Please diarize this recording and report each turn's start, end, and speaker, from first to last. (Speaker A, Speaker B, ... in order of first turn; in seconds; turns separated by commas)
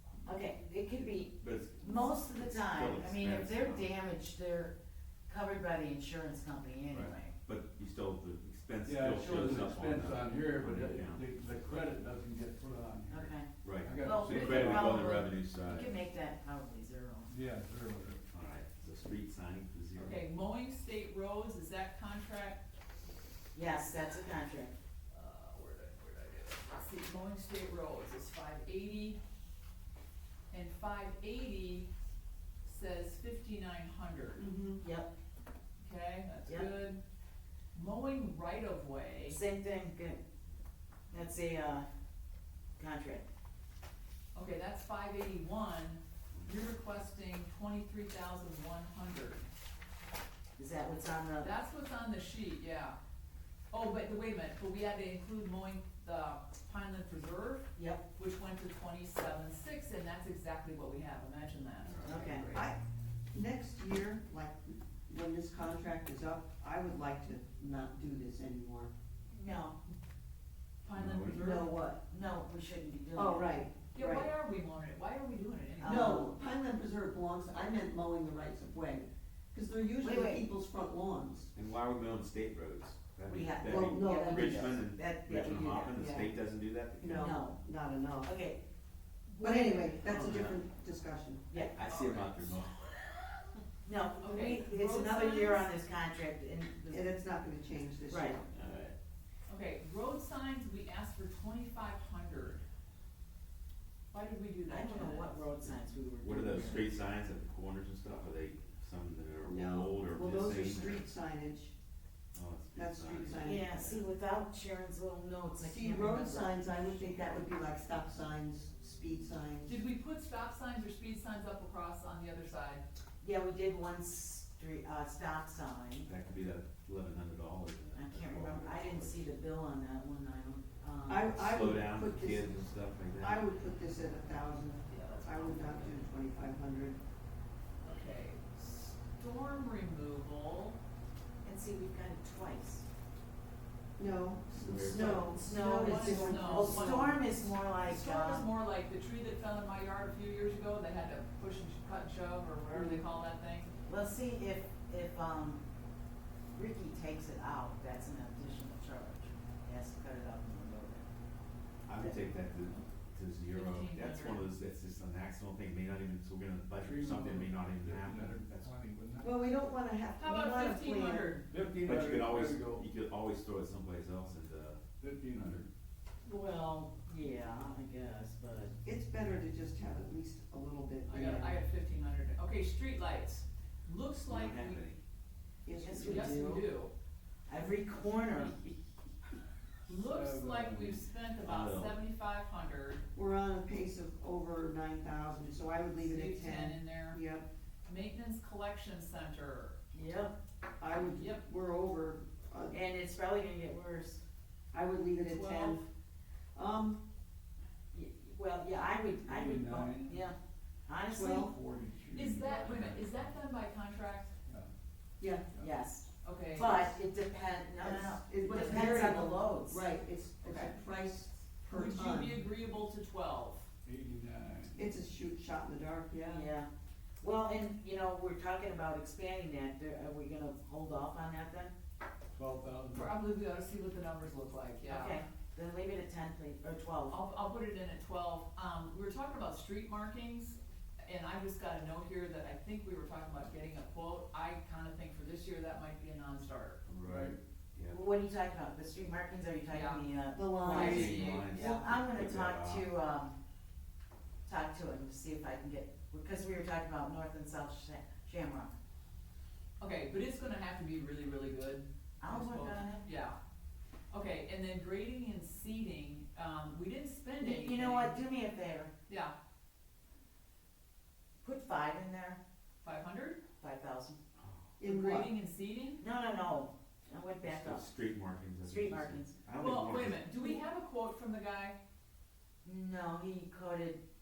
Speaker A: 0.2-4.7, Speaker B: 1.3-3.9, Speaker A: 5.3-7.3, Speaker B: 6.9-11.9, Speaker C: 8.8-14.9, Speaker A: 13.1-17.3, Speaker B: 13.6-15.9, Speaker C: 17.3-18.2, Speaker B: 18.3-20.2, Speaker D: 20.0-22.6, Speaker A: 23.5-24.7, Speaker D: 25.1-29.2, Speaker D: 30.5-31.9, Speaker D: 32.6-34.4, Speaker E: 34.4-34.8, Speaker A: 34.8-35.1, Speaker D: 35.8-37.0, Speaker D: 37.7-39.4, Speaker A: 39.2-40.2, Speaker A: 41.1-41.9, Speaker A: 42.8-43.2, Speaker D: 44.3-49.5, Speaker A: 50.6-51.5, Speaker D: 51.4-53.0, Speaker D: 53.7-62.7, Speaker A: 57.8-58.0, Speaker B: 61.9-62.2, Speaker A: 62.0-62.5, Speaker E: 62.5-62.8, Speaker E: 63.3-68.9, Speaker A: 69.3-69.8, Speaker D: 70.8-71.6, Speaker B: 71.0-71.3, Speaker E: 71.2-71.9, Speaker A: 71.4-73.5, Speaker E: 73.1-74.3, Speaker D: 73.9-76.2, Speaker A: 75.8-76.3, Speaker E: 75.8-81.5, Speaker A: 80.0-80.4, Speaker B: 81.5-87.2, Speaker A: 83.3-86.0, Speaker E: 83.7-84.8, Speaker E: 85.9-86.3, Speaker E: 87.0-88.3, Speaker A: 87.2-87.6, Speaker A: 88.2-88.6, Speaker A: 89.3-90.0, Speaker E: 89.4-91.5, Speaker B: 90.0-90.6, Speaker D: 91.5-92.6, Speaker B: 91.6-93.2, Speaker A: 93.8-97.1, Speaker D: 94.2-95.7, Speaker E: 96.9-98.6, Speaker A: 98.1-98.4, Speaker B: 98.5-98.9, Speaker D: 99.5-102.6, Speaker D: 104.1-105.4, Speaker A: 104.7-106.9, Speaker B: 105.6-111.0, Speaker E: 109.4-111.7, Speaker B: 112.3-114.0, Speaker E: 112.7-113.7, Speaker A: 113.4-117.2, Speaker E: 115.6-119.8, Speaker D: 119.7-122.8, Speaker A: 123.2-126.1, Speaker B: 126.0-129.3, Speaker A: 127.9-131.3, Speaker E: 131.1-137.0, Speaker B: 131.3-133.5, Speaker D: 134.8-136.0, Speaker D: 137.8-140.8, Speaker A: 141.4-142.8, Speaker E: 144.0-147.2, Speaker B: 144.5-145.4, Speaker A: 144.9-148.5, Speaker D: 145.4-153.7, Speaker A: 153.9-155.6, Speaker A: 156.5-161.1, Speaker B: 161.8-168.7, Speaker D: 163.5-164.5, Speaker C: 166.8-169.3, Speaker E: 169.2-171.4, Speaker D: 170.2-171.4, Speaker C: 171.5-172.8, Speaker B: 171.8-174.8, Speaker C: 175.0-175.7, Speaker A: 176.2-178.7, Speaker E: 178.8-181.6, Speaker D: 181.1-184.8, Speaker B: 184.3-185.0, Speaker E: 185.6-186.6, Speaker A: 185.8-186.6, Speaker D: 186.0-186.9, Speaker A: 187.5-188.6, Speaker D: 189.9-193.0, Speaker C: 189.9-191.0, Speaker B: 191.4-191.9, Speaker E: 193.1-197.4, Speaker D: 196.0-197.2, Speaker D: 197.8-199.8, Speaker A: 199.9-200.3, Speaker E: 200.8-202.8, Speaker D: 200.9-201.4, Speaker A: 202.7-204.2, Speaker E: 204.7-205.8, Speaker D: 205.2-205.8, Speaker E: 206.5-207.0, Speaker A: 207.9-210.3, Speaker C: 209.2-210.2, Speaker A: 210.9-211.5, Speaker E: 211.1-211.5, Speaker C: 211.3-213.1, Speaker D: 212.1-214.3, Speaker E: 215.2-215.5, Speaker A: 215.6-219.8, Speaker D: 216.2-216.8, Speaker E: 216.6-216.9, Speaker E: 217.8-222.4, Speaker D: 220.4-220.7, Speaker D: 221.7-223.7, Speaker C: 223.8-224.8, Speaker E: 224.8-226.5, Speaker A: 226.2-226.7, Speaker A: 227.2-231.7, Speaker C: 232.3-233.1, Speaker D: 232.9-235.2, Speaker A: 234.8-237.2, Speaker D: 237.1-246.8, Speaker B: 246.9-248.0, Speaker C: 247.0-247.4, Speaker A: 247.9-253.4, Speaker D: 249.7-250.1, Speaker E: 250.3-251.3, Speaker D: 250.6-251.8, Speaker B: 250.8-252.9, Speaker A: 254.4-258.7, Speaker D: 259.8-263.4, Speaker A: 262.2-263.1, Speaker D: 264.1-268.2, Speaker A: 267.4-268.9, Speaker D: 269.1-269.3, Speaker A: 271.4-272.4, Speaker D: 272.8-273.4, Speaker A: 273.6-274.2, Speaker E: 274.8-275.3, Speaker D: 274.8-276.0, Speaker A: 276.0-277.8, Speaker B: 277.4-280.3, Speaker A: 278.6-279.4, Speaker D: 279.5-281.8, Speaker A: 282.6-284.0